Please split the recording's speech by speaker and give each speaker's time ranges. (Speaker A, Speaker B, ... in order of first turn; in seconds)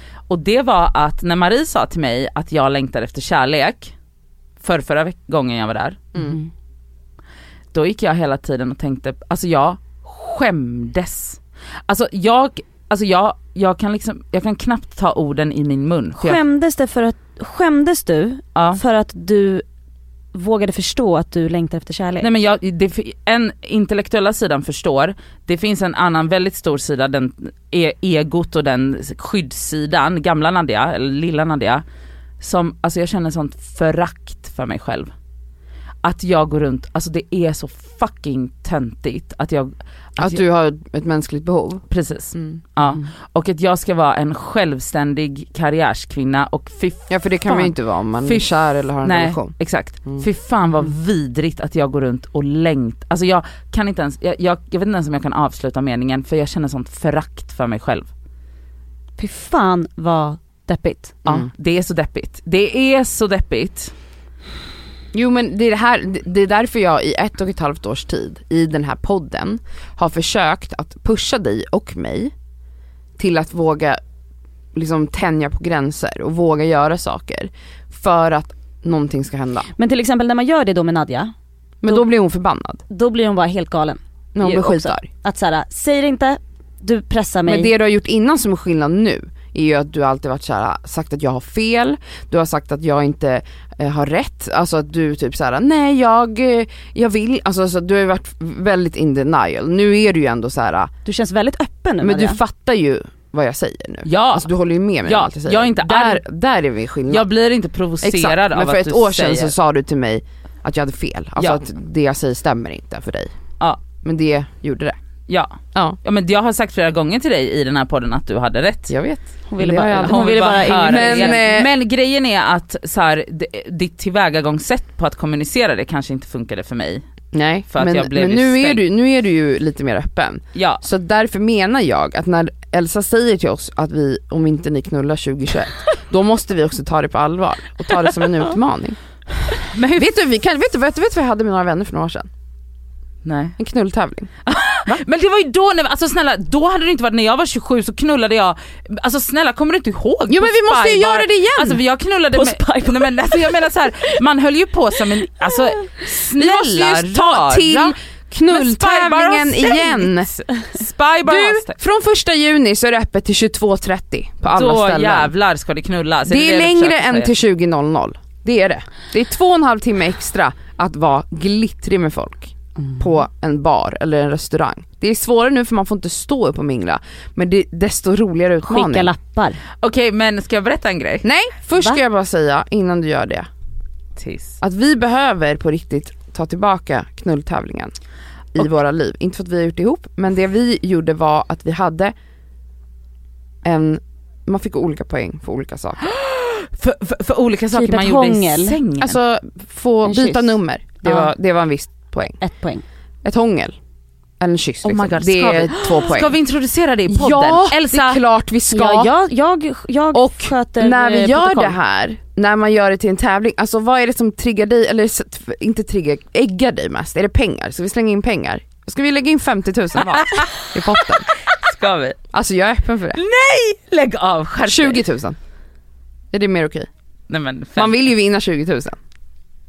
Speaker A: 0.3-3.9, 4.6-6.1, 7.7-16.4, 18.6-18.8, 22.2-31.8, 32.4-35.1, 36.0-40.4, 41.9-48.5, 49.0-58.1, 61.2-63.9, 104.0-104.5, 105.0-106.2, 107.1-109.5, 115.3-118.9, 120.0-127.0, 127.7-128.8, 130.5-130.8, 139.7-140.1, 143.2-143.6, 144.4-157.9, 158.5-161.8, 164.5-167.3, 179.8-181.2, 184.2-184.6, 196.0-199.2, 204.8-208.2, 220.0-220.5, 221.5-222.2, 223.1-225.0, 227.3-228.0
Speaker B: 6.2-6.5, 16.2-19.6, 20.3-22.3, 59.2-61.2, 79.8-81.3, 82.9-87.7, 101.0-102.4, 119.5-121.5, 152.3-153.6, 178.7-179.6, 197.7-198.8, 200.0-201.3, 202.4-202.8, 208.7-211.7
Speaker C: 40.2-41.8, 47.1-49.5, 65.1-72.3, 73.2-74.0, 74.7-79.7, 81.8-82.8, 84.3-85.1, 87.4-100.9, 102.0-107.3, 108.0-113.3, 114.0-115.0, 118.9-121.7, 127.3-139.0, 139.9-142.3, 143.6-144.3, 150.3-151.8, 156.4-160.3, 161.2-165.3, 166.3-179.1, 181.2-183.5, 184.6-187.9, 188.5-192.1, 193.6-196.0, 199.0-202.4, 203.2-203.8, 204.4-206.3, 207.1-209.1, 210.1-221.3, 222.3-223.2, 224.6-225.4, 226.3-226.9, 227.8-229.0